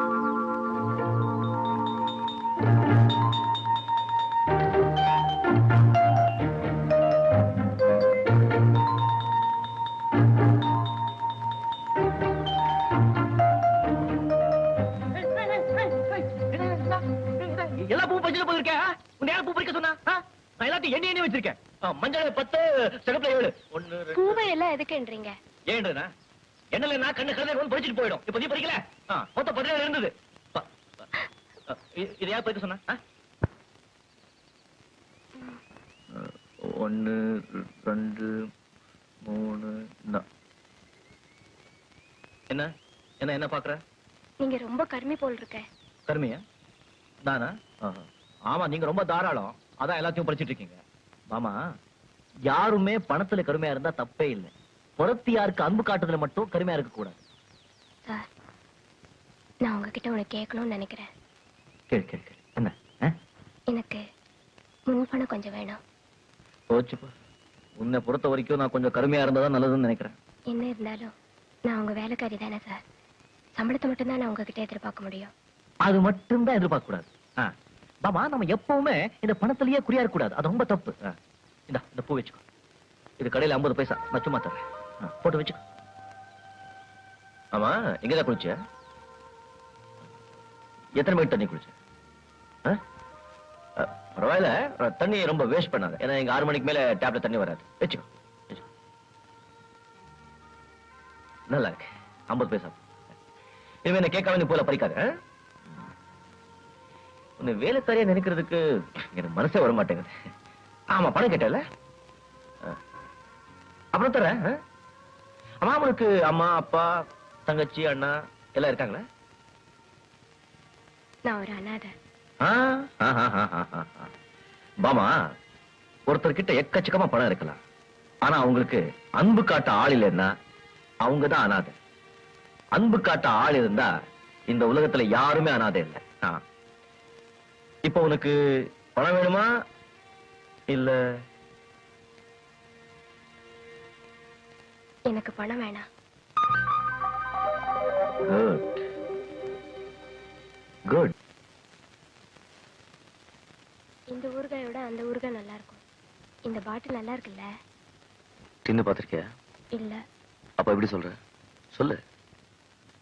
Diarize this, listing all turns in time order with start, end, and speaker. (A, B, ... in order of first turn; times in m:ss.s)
0:15.5-0:24.4 A
0:24.1-0:25.3 B
0:25.7-0:26.1 A
0:26.7-0:30.7 A
0:31.7-0:33.0 A
0:36.1-0:38.3 A
0:39.2-0:40.2 A
0:43.2-0:43.8 A
0:44.4-0:45.6 B
0:46.1-0:46.4 A
0:47.2-0:50.8 A
0:52.5-0:57.2 A
0:59.6-1:01.1 B
1:01.9-1:03.1 A
1:03.7-1:04.0 B
1:04.9-1:05.8 B
1:06.7-1:07.1 A
1:07.8-1:10.1 A
1:10.5-1:11.1 B
1:11.7-1:12.8 B
1:13.6-1:15.3 B
1:15.8-1:17.5 A
1:18.0-1:21.1 A
1:21.7-1:22.4 A
1:23.2-1:25.6 A
1:27.5-1:28.6 A
1:31.0-1:31.7 A
1:33.8-1:38.6 A
1:41.5-1:42.8 A
1:43.8-1:45.0 A
1:47.4-1:50.1 A
1:50.9-1:51.6 A
1:53.9-1:54.5 A
1:55.6-1:56.9 A
1:57.4-1:59.0 A
2:01.3-2:01.9 B
2:02.4-2:04.1 A
2:04.8-2:05.1 A
2:06.1-2:07.6 A
2:08.2-2:10.3 A
2:11.0-2:11.8 A
2:12.7-2:13.9 A
2:14.5-2:16.4 A
2:17.8-2:18.4 A
2:18.9-2:19.5 A
2:20.7-2:21.0 A
2:25.1-2:25.8 B
2:28.3-2:28.8 A
2:34.1-2:35.8 B
2:36.5-2:37.5 B
2:38.6-2:39.2 A
2:40.6-2:41.2 A
2:41.7-2:42.0 A